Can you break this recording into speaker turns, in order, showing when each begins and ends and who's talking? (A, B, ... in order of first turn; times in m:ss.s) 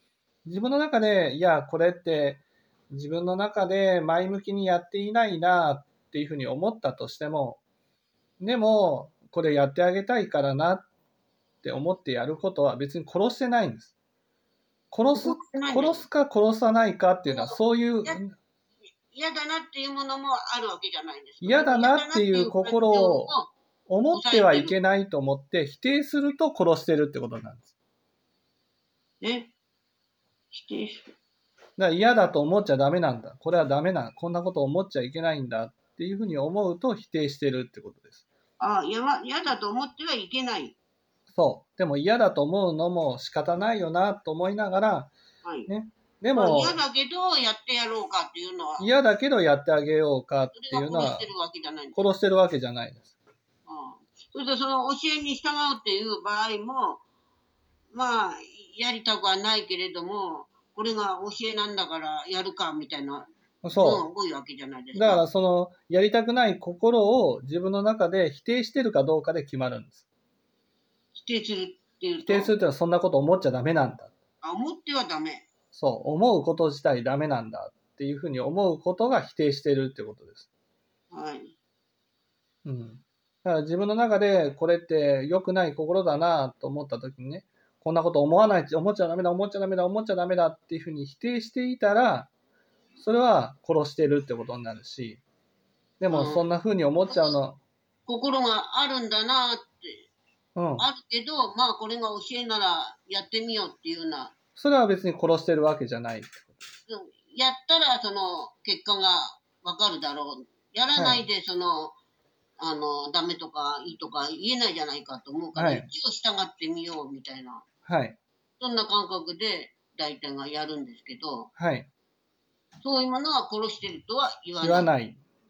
0:00.4-0:07.6 A
0:08.4-0:10.9 A
0:11.6-0:13.9 A
0:14.9-0:18.4 A
0:15.2-0:16.0 B
0:17.3-0:18.2 B
0:19.1-0:23.5 B
0:21.4-0:23.3 A
0:23.9-0:27.7 A
0:24.1-0:24.8 B
0:29.2-0:29.5 B
0:30.5-0:31.1 B
0:31.8-0:38.2 A
0:38.6-0:40.8 B
0:41.3-0:45.1 A
0:45.4-0:45.7 B
0:45.7-0:46.8 A
0:46.3-0:48.9 B
0:48.8-0:51.3 A
0:50.5-0:52.1 B
0:51.9-0:53.1 A
0:53.7-0:57.0 B
0:57.9-1:05.2 B
1:03.6-1:04.0 A
1:04.9-1:10.0 A
1:11.2-1:12.5 B
1:12.3-1:14.1 A
1:14.4-1:15.5 B
1:15.7-1:20.5 A
1:21.1-1:21.5 B
1:22.6-1:32.3 A
1:33.0-1:35.2 A
1:36.0-1:37.6 A
1:36.1-1:36.4 B
1:38.1-1:40.1 B
1:40.6-1:40.9 A
1:40.8-1:44.4 B
1:44.6-1:46.6 A
1:46.9-1:52.0 B
1:51.0-1:51.2 A
1:52.6-1:57.6 B
1:55.6-1:55.9 A
1:57.9-1:58.2 A
1:58.6-2:01.5 B
2:01.6-2:01.9 A
2:02.8-2:04.9 B
2:04.6-2:05.2 A